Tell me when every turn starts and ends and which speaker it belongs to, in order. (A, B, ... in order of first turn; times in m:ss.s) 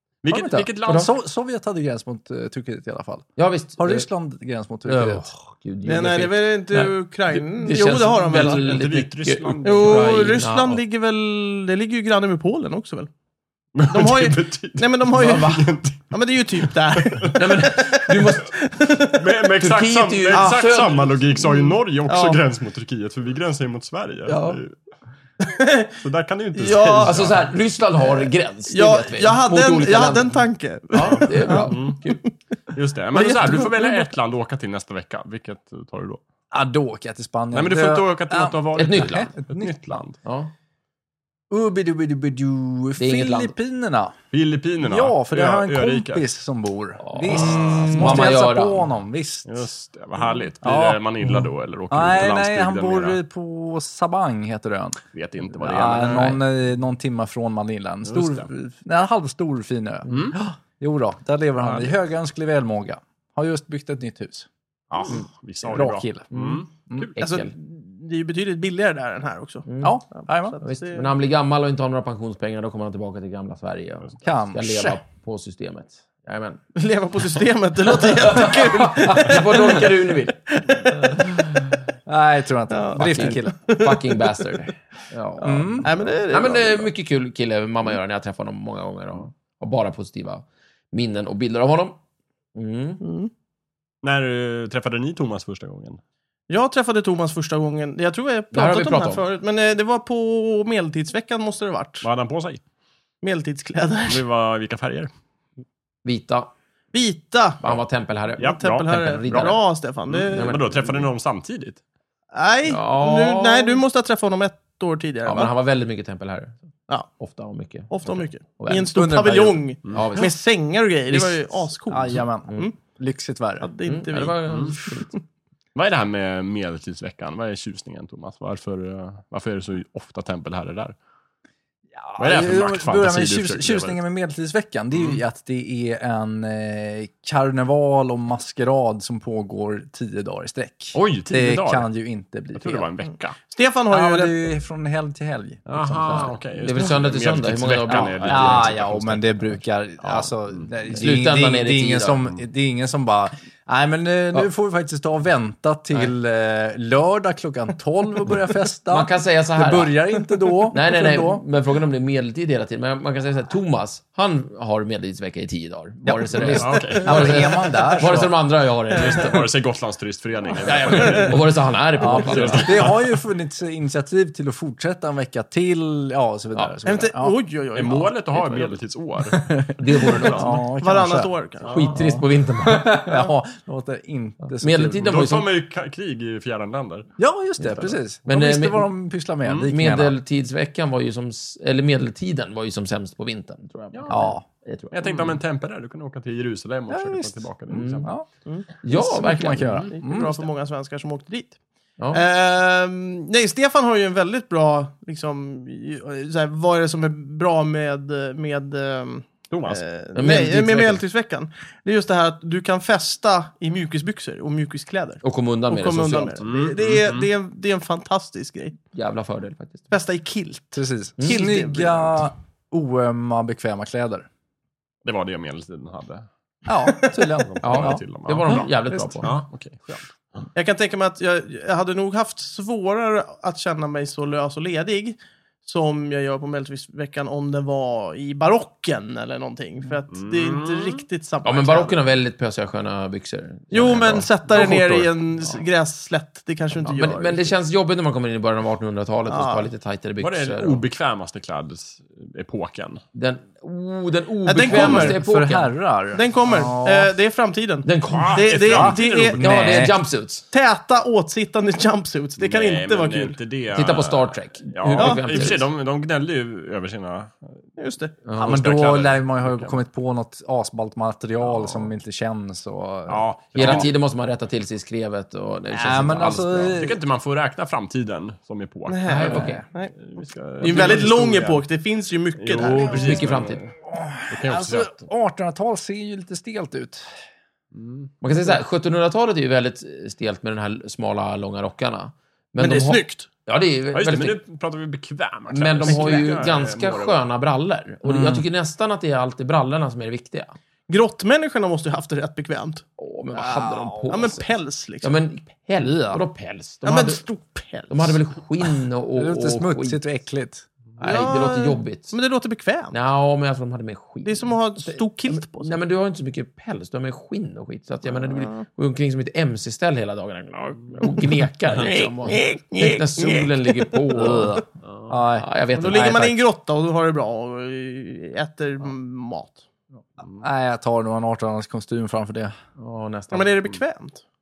0:00.2-0:01.1 A
0:00.3-0:03.2 B
0:03.4-0:04.1 C
0:03.8-0:05.3 B
0:04.9-0:10.8 C
0:05.8-0:08.8 D
0:08.3-0:10.3 A
0:09.6-0:13.1 D
0:13.8-0:17.4 A
0:13.9-0:19.3 D
0:15.1-0:15.6 C
0:17.4-0:18.5 C
0:19.1-0:24.7 A
0:19.6-0:21.2 C
0:20.3-0:20.7 D
0:21.4-0:22.4 D
0:24.3-0:24.6 C
0:25.4-0:25.9 D
0:26.0-0:27.4 A
0:26.6-0:27.2 D
0:27.0-0:32.2 C
0:28.0-0:32.3 D
0:31.0-0:32.0 A
0:32.7-0:36.2 A
0:33.1-0:34.1 D
0:36.5-0:40.0 B
0:37.5-0:40.2 A
0:38.8-0:39.3 C
0:40.2-0:40.5 C
0:41.5-0:44.2 B
0:43.0-0:43.6 C
0:44.3-0:46.3 A
0:44.8-0:49.5 B
0:47.0-0:48.9 C
0:47.3-0:48.2 A
0:49.5-0:53.2 A
0:50.6-0:55.0 B
0:55.1-0:56.4 A
0:55.6-1:04.5 B
0:58.0-0:58.5 A
1:00.1-1:00.4 C
1:00.1-1:00.4 A
1:01.6-1:01.9 A
1:04.9-1:07.1 A
1:05.7-1:07.1 B
1:06.3-1:07.5 C
1:07.2-1:11.1 D
1:09.7-1:10.0 C
1:09.8-1:10.6 B
1:10.6-1:16.6 C
1:14.2-1:15.0 B
1:16.8-1:21.6 D
1:17.8-1:20.4 C
1:22.1-1:23.6 B
1:22.7-1:24.6 D
1:23.0-1:32.0 C
1:25.4-1:25.9 B
1:25.8-1:26.9 D
1:32.6-1:33.0 C
1:33.0-1:33.3 D
1:34.0-1:36.0 A
1:36.5-1:42.1 D
1:38.5-1:39.2 C
1:42.0-1:42.6 A
1:43.2-1:44.2 D
1:44.1-1:45.1 A
1:46.0-1:46.5 C
1:46.9-1:47.6 D
1:47.6-1:49.7 C
1:48.4-1:49.5 A
1:48.4-1:50.9 D
1:50.1-1:51.8 A
1:50.3-1:50.8 C
1:52.3-1:55.5 D
1:52.7-1:53.8 C
1:55.2-1:56.6 C
1:57.1-1:59.0 C
1:57.9-2:02.8 D
1:58.9-1:59.7 B
1:59.9-2:00.3 C
2:01.9-2:03.7 B
2:03.6-2:05.2 D
2:03.8-2:05.1 C
2:05.8-2:11.0 A
2:12.0-2:22.9 B
2:12.2-2:14.0 A
2:14.9-2:15.2 A
2:20.9-2:21.9 A
2:22.5-2:23.4 A
2:23.4-2:24.5 D
2:23.9-2:26.3 B
2:25.7-2:29.5 A
2:25.9-2:29.0 C
2:27.9-2:41.4 B
2:30.0-2:30.7 A
2:30.9-2:32.3 C
2:38.9-2:49.5 C
2:46.0-2:48.4 B
2:46.5-2:47.5 A
2:48.9-2:53.1 A
2:50.6-2:52.9 C
2:50.9-2:51.3 D
2:52.0-2:57.4 B
2:56.8-2:58.8 D
2:57.7-2:59.5 A
2:59.3-3:05.2 B
2:59.8-3:00.6 C
3:00.1-3:00.3 A
3:00.4-3:01.8 D
3:01.6-3:01.9 A
3:01.7-3:03.2 C
3:04.6-3:05.5 C
3:05.0-3:07.1 A
3:07.2-3:10.2 B
3:08.3-3:08.9 C
3:09.6-3:15.3 C
3:13.9-3:14.2 A
3:14.1-3:14.4 B
3:14.9-3:18.1 A
3:16.9-3:17.5 B
3:17.7-3:18.1 C
3:18.8-3:19.9 C
3:18.9-3:20.4 B
3:19.9-3:21.6 D
3:22.1-3:38.8 D
3:29.5-3:29.8 A
3:30.2-3:31.0 C
3:35.2-3:36.4 C
3:36.4-3:37.3 A
3:38.9-3:39.8 C
3:39.9-3:42.3 D
3:40.8-3:44.3 B
3:41.2-3:41.4 C
3:45.0-3:46.3 A
3:46.7-3:49.3 B
3:47.5-3:48.7 A
3:47.6-3:49.3 C
3:49.2-3:50.4 A
3:50.6-4:02.0 D
4:00.1-4:01.0 A
4:01.4-4:05.6 C
4:03.7-4:07.5 D
4:04.5-4:04.8 A
4:06.9-4:10.8 C
4:09.3-4:09.7 D
4:10.2-4:13.0 A
4:13.1-4:15.7 C
4:14.4-4:15.2 D
4:14.7-4:17.1 B
4:16.1-4:19.7 D
4:17.8-4:18.6 C
4:18.1-4:19.8 A
4:18.7-4:20.0 B
4:19.4-4:20.4 C
4:20.5-4:23.4 D
4:22.4-4:27.6 A
4:23.8-4:25.7 C
4:25.0-4:25.5 D
4:27.8-4:28.1 D
4:28.3-4:28.5 C
4:28.4-4:29.8 A
4:28.4-4:33.9 B
4:31.4-4:31.9 A
4:33.1-4:33.9 A
4:33.5-4:36.8 C
4:35.7-4:37.0 B
4:36.7-4:41.6 A
4:38.9-4:39.9 D
4:39.1-4:39.6 C
4:39.2-4:39.6 B
4:40.6-4:43.2 D
4:42.4-4:43.7 A
4:42.8-4:43.7 C
4:43.9-4:47.1 B
4:44.3-4:45.0 A
4:47.7-4:48.1 A
4:48.2-4:54.4 C
4:52.6-4:53.3 D
4:53.9-4:57.2 A
4:55.5-5:00.5 C
4:58.0-4:58.4 B
5:00.9-5:02.8 D
5:03.0-5:04.5 C
5:03.4-5:04.2 B
5:04.1-5:05.1 D
5:05.0-5:07.2 C
5:06.8-5:08.2 D
5:07.9-5:10.0 C
5:09.2-5:10.6 B
5:11.0-5:12.2 C
5:11.0-5:13.0 D
5:12.9-5:24.6 C
5:14.2-5:15.7 D
5:18.2-5:18.7 D
5:21.7-5:23.7 D
5:24.2-5:26.4 B
5:25.4-5:26.4 C
5:25.8-5:29.6 D
5:30.4-5:32.6 B
5:32.8-5:33.7 C
5:33.3-5:34.2 D